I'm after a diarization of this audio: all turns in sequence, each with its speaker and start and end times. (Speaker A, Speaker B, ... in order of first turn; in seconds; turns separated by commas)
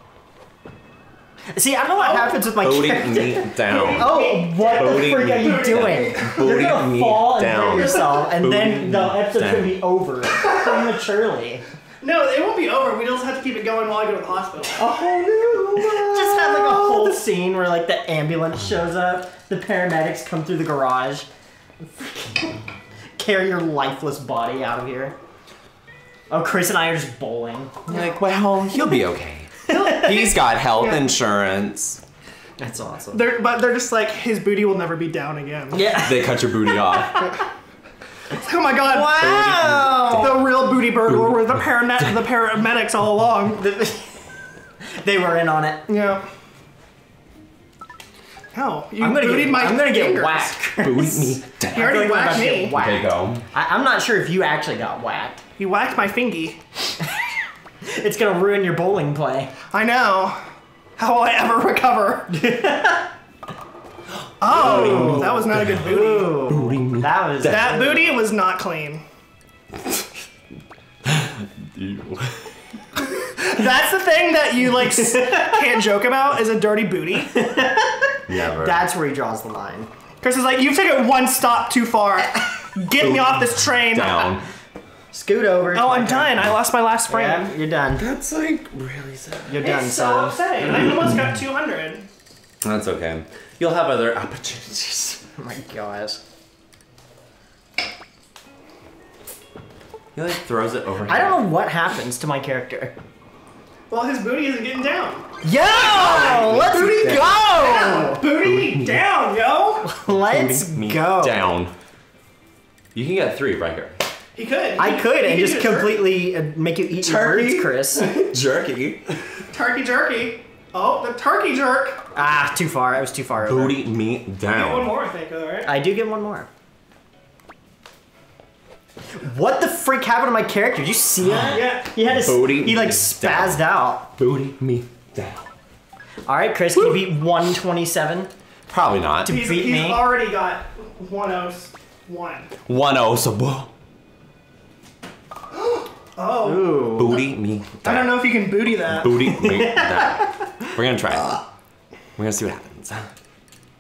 Speaker A: 1.5-11.6, Speaker B: 1.9-2.4, Speaker C: 2.6-9.8, Speaker B: 3.7-6.3, Speaker B: 10.5-10.8, Speaker B: 12.0-14.9, Speaker C: 14.8-17.1, Speaker A: 15.7-21.3, Speaker A: 21.8-22.6, Speaker A: 23.2-25.2, Speaker A: 26.3-27.9, Speaker C: 27.9-32.0, Speaker A: 29.7-30.0, Speaker A: 32.6-33.3, Speaker B: 33.1-35.9, Speaker A: 35.7-37.2, Speaker C: 35.9-37.4, Speaker B: 38.4-39.3, Speaker A: 38.8-40.5, Speaker C: 39.2-40.5, Speaker B: 40.1-43.7, Speaker C: 41.1-42.1, Speaker A: 43.6-44.1, Speaker A: 44.9-45.9, Speaker B: 45.9-46.2, Speaker B: 48.5-50.6, Speaker A: 49.0-55.4, Speaker C: 50.8-52.1, Speaker B: 51.7-52.8, Speaker C: 52.7-53.4, Speaker B: 55.6-56.6, Speaker A: 57.9-59.5, Speaker B: 59.7-60.4, Speaker B: 61.0-62.4, Speaker A: 62.3-63.1, Speaker B: 64.4-66.5, Speaker C: 64.5-66.0, Speaker A: 64.5-68.1, Speaker C: 66.5-67.8, Speaker B: 67.5-69.0, Speaker C: 71.0-72.5, Speaker B: 73.2-77.5, Speaker A: 77.3-79.9, Speaker C: 78.3-78.8, Speaker B: 80.2-84.3, Speaker C: 83.0-84.5, Speaker A: 85.1-86.5, Speaker B: 85.7-87.5, Speaker A: 87.1-88.1, Speaker C: 88.0-89.6, Speaker A: 89.5-90.4, Speaker B: 89.6-92.0, Speaker C: 92.6-95.2, Speaker A: 95.4-96.2, Speaker C: 100.2-101.5, Speaker A: 101.1-103.0, Speaker B: 103.9-105.3, Speaker A: 105.4-108.2, Speaker B: 105.8-106.6, Speaker C: 105.8-107.4, Speaker B: 107.5-109.9, Speaker C: 108.4-109.0, Speaker A: 109.9-111.4, Speaker C: 110.1-111.7, Speaker C: 112.9-114.0, Speaker B: 114.3-116.2, Speaker A: 114.8-118.1, Speaker C: 117.0-119.2, Speaker B: 119.5-122.0, Speaker A: 122.2-123.8, Speaker C: 123.4-124.9, Speaker B: 124.5-125.7, Speaker A: 125.7-126.5, Speaker A: 129.2-134.1, Speaker B: 131.5-131.9, Speaker C: 132.0-133.6, Speaker C: 134.2-135.5, Speaker A: 136.3-138.3, Speaker C: 138.7-139.3, Speaker A: 139.2-140.1, Speaker B: 139.3-142.5, Speaker C: 142.7-143.7, Speaker B: 145.5-147.1, Speaker A: 146.4-147.2, Speaker C: 146.9-148.3, Speaker B: 147.8-149.4, Speaker C: 148.9-151.4, Speaker A: 149.3-150.4, Speaker C: 152.2-153.1